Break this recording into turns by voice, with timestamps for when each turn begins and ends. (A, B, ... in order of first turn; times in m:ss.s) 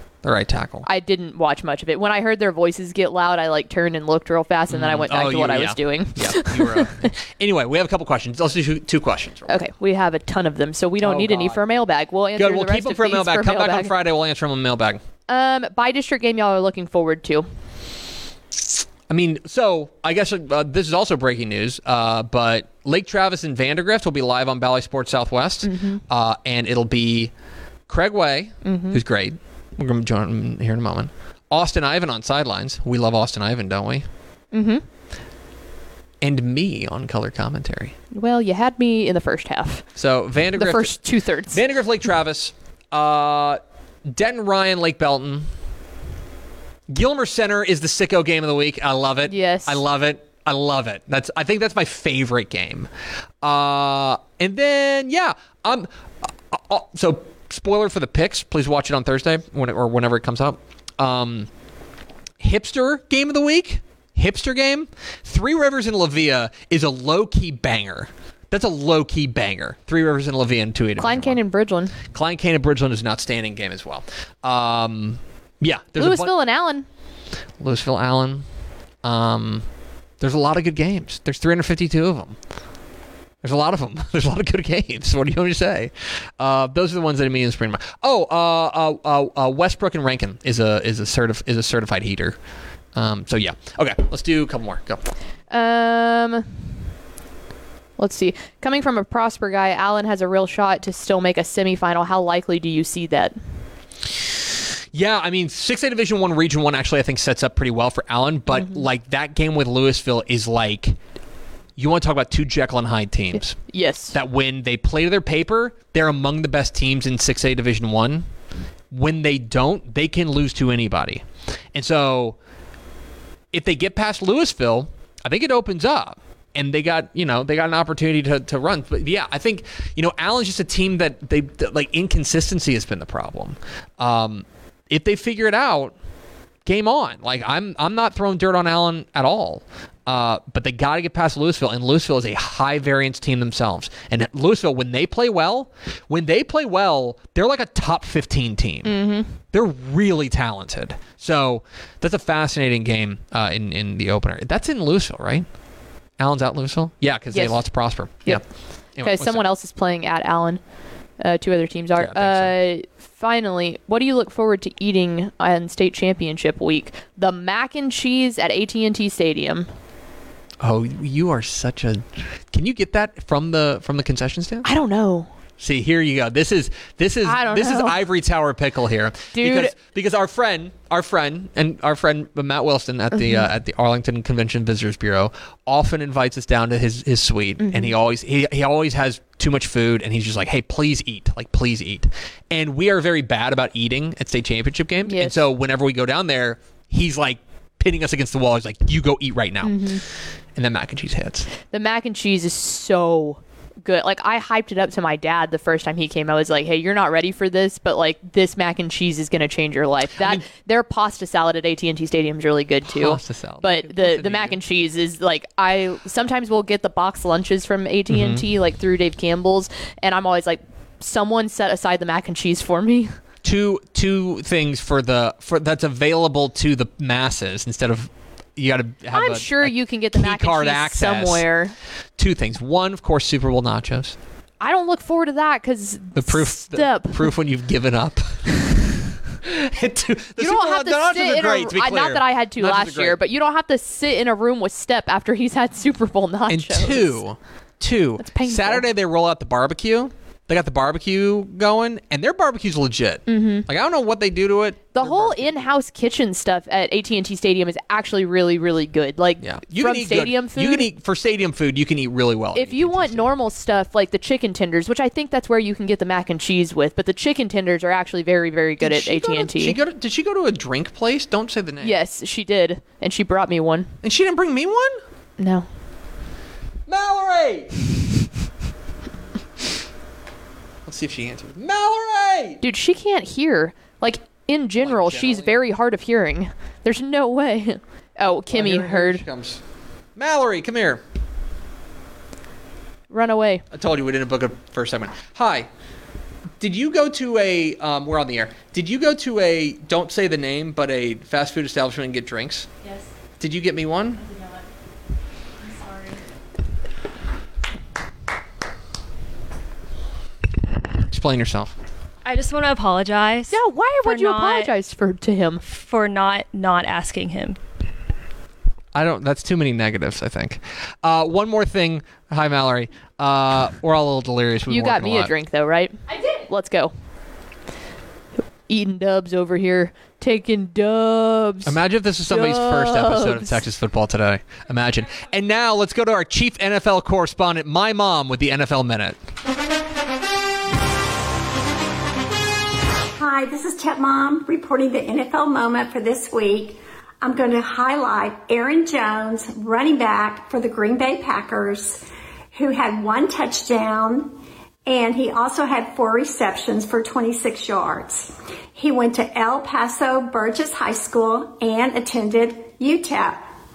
0:00.2-0:00.8 A
0:00.8-0:07.0 B
0:04.7-0:09.6 A
0:09.5-0:13.9 B
0:11.0-0:11.6 A
0:12.4-0:15.0 A
0:15.3-0:17.4 B
0:19.1-0:27.3 A
0:25.6-0:26.0 B
0:27.9-0:34.1 A
0:28.6-0:29.0 B
0:34.5-0:34.8 B
0:36.2-0:37.9 A
0:38.1-0:39.9 B
0:40.0-0:41.0 A
0:40.6-0:41.6 B
0:41.5-0:45.5 A
0:46.9-0:52.9 A
0:49.3-0:49.8 B
0:53.4-0:55.9 A
0:56.5-1:01.5 A
1:02.4-1:11.4 A
1:11.0-1:12.0 B
1:12.1-1:16.3 A
1:16.0-1:16.9 B
1:17.6-1:18.4 A
1:19.0-1:19.6 A
1:20.2-1:22.4 A
1:23.4-1:32.4 A
1:32.9-1:35.0 A
1:35.5-1:36.4 B
1:38.0-1:43.3 B
1:44.9-1:51.0 A
1:48.5-1:48.8 B
1:51.8-1:53.6 A
1:53.3-1:54.2 B
1:54.1-1:58.3 A
1:58.9-2:02.4 A
2:03.5-2:15.9 A
2:16.6-2:28.9 A
2:28.8-2:29.3 B
2:29.5-2:35.4 A
2:36.2-2:39.4 A
2:37.3-2:38.4 B
2:39.0-2:40.6 B
2:41.2-2:49.7 B
2:42.0-2:42.5 A
2:50.6-2:54.6 A
2:54.6-2:55.3 B
2:55.6-3:19.8 A
2:57.2-2:58.0 B
2:59.3-2:59.7 B
3:03.1-3:03.5 B
3:07.6-3:07.9 B
3:15.0-3:15.4 B
3:19.6-3:20.0 B
3:20.5-3:21.5 A
3:21.6-3:43.2 B
3:30.2-3:30.4 A
3:32.9-3:34.6 A
3:38.1-3:38.4 A
3:43.4-3:51.4 A
3:49.1-3:51.7 B
3:52.2-3:54.2 A
3:54.6-3:57.2 B
3:56.1-3:58.6 A
3:59.4-4:03.2 A
4:00.4-4:07.2 B
4:06.5-4:15.7 A
4:08.2-4:08.8 B
4:13.3-4:13.7 B
4:14.9-4:20.9 B
4:19.4-4:23.3 A
4:22.5-4:29.8 B
4:28.8-4:32.0 A
4:31.8-4:33.9 B
4:34.0-4:35.0 A
4:35.4-4:35.6 B
4:36.9-4:37.7 A
4:40.8-4:42.6 A
4:42.6-4:49.2 B
4:44.8-4:45.5 A
4:48.5-4:49.6 A
4:50.2-4:51.0 A
4:53.1-4:53.6 B
4:53.7-4:55.7 A
4:56.6-5:02.7 A
5:02.8-5:03.1 C
5:03.4-5:04.2 A
5:04.2-5:04.6 C
5:05.6-5:06.2 C
5:11.1-5:11.7 A
5:12.2-5:14.7 C
5:13.5-5:15.6 B
5:15.6-5:17.6 C
5:18.9-5:25.3 A
5:24.7-5:26.9 B
5:28.7-5:33.6 B
5:31.6-5:39.2 A
5:43.1-6:03.4 D